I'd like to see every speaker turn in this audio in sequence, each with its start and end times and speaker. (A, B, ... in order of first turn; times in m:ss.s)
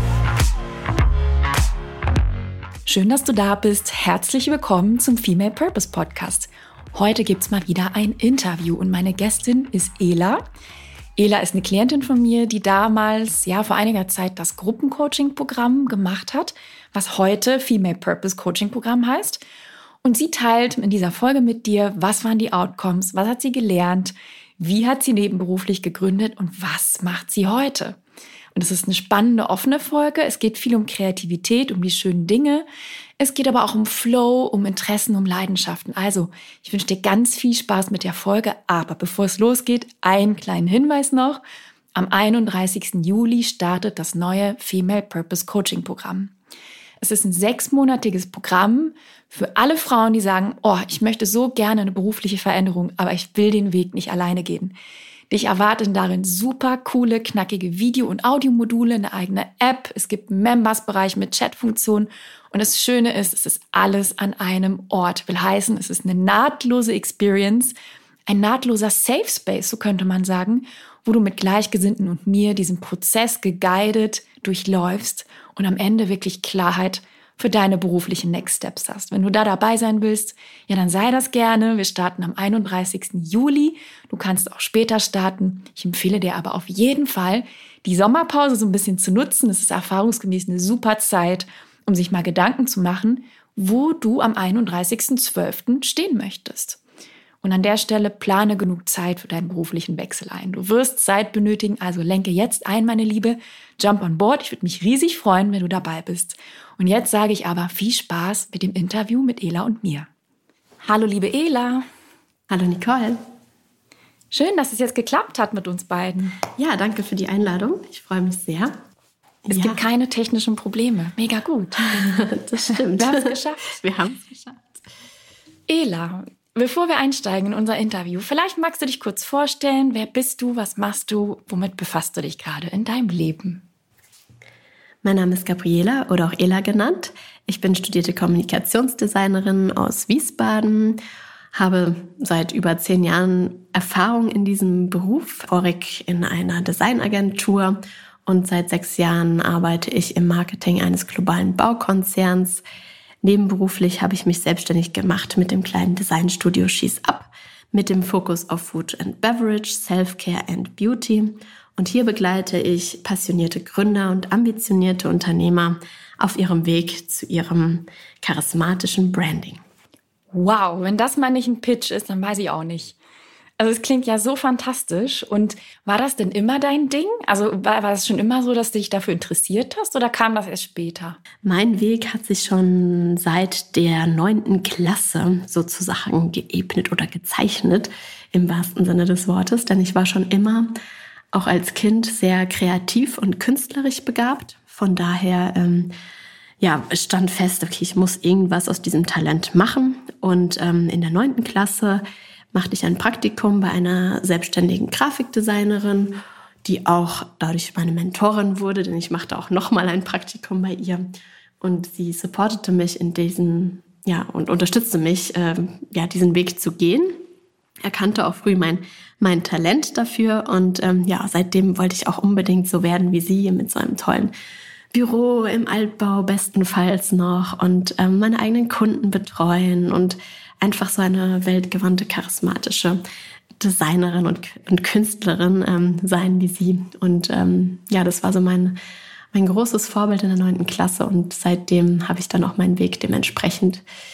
0:02.9-0:10.4 A
0:11.2-0:19.4 A
0:20.0-0:28.0 A
0:28.6-0:32.7 A
0:33.2-0:41.4 A
0:42.0-0:46.3 A
0:47.0-0:54.7 A
0:55.3-1:07.7 A
1:08.3-1:36.8 A
1:37.4-1:50.1 A
1:50.8-1:51.8 A
1:52.5-1:53.2 B
1:54.3-1:56.4 A
1:56.6-1:58.7 B
1:59.5-1:59.8 B
1:59.5-2:02.1 A
2:01.8-2:04.8 B
2:02.7-2:03.6 A
2:05.7-2:13.6 A
2:15.0-2:21.0 B
2:21.5-2:32.6 B
2:33.2-2:49.6 B
2:50.3-2:53.0 A
2:53.6-3:01.2 A
3:01.4-3:10.7 B
3:11.3-3:15.9 B
3:16.6-3:22.0 B
3:22.5-3:31.1 B
3:31.6-3:37.1 B
3:37.8-3:44.3 B
3:44.9-3:53.0 B
3:53.6-3:58.8 B
3:59.3-4:03.8 B